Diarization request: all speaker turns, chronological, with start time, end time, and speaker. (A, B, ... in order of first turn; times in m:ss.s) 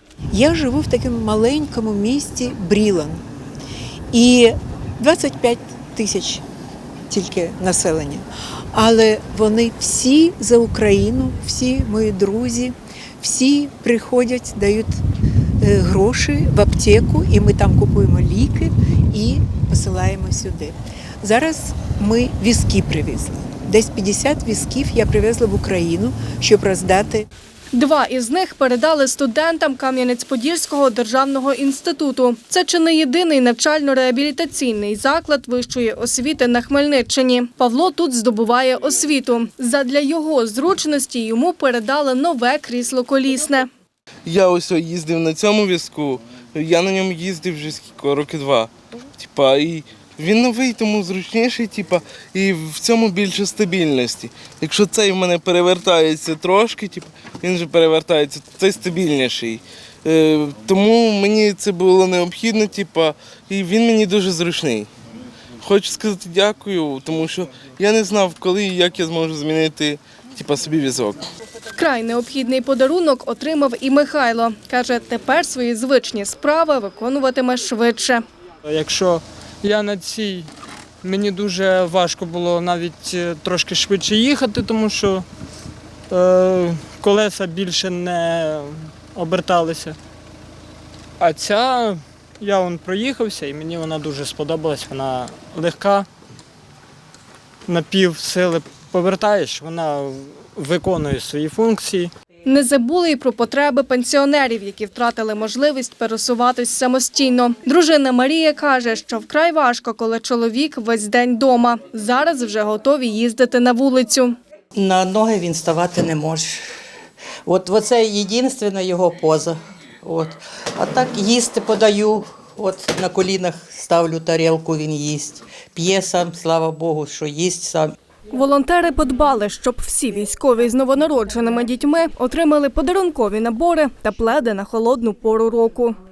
0:00.3-0:03.2 A
0:04.1-0:06.4 A
0:07.1-0:15.0 A
0:15.6-0:27.2 A
0:27.7-0:43.7 B
0:44.2-1:04.9 C
1:05.6-1:11.2 C
1:11.7-1:18.2 B
1:18.6-1:20.5 D
1:21.0-1:25.2 D
1:26.1-1:30.0 D
1:31.2-1:36.1 D
1:37.7-1:42.1 D
1:42.5-1:54.3 B
1:54.7-1:56.6 E
1:57.4-2:08.0 E
2:08.3-2:15.9 B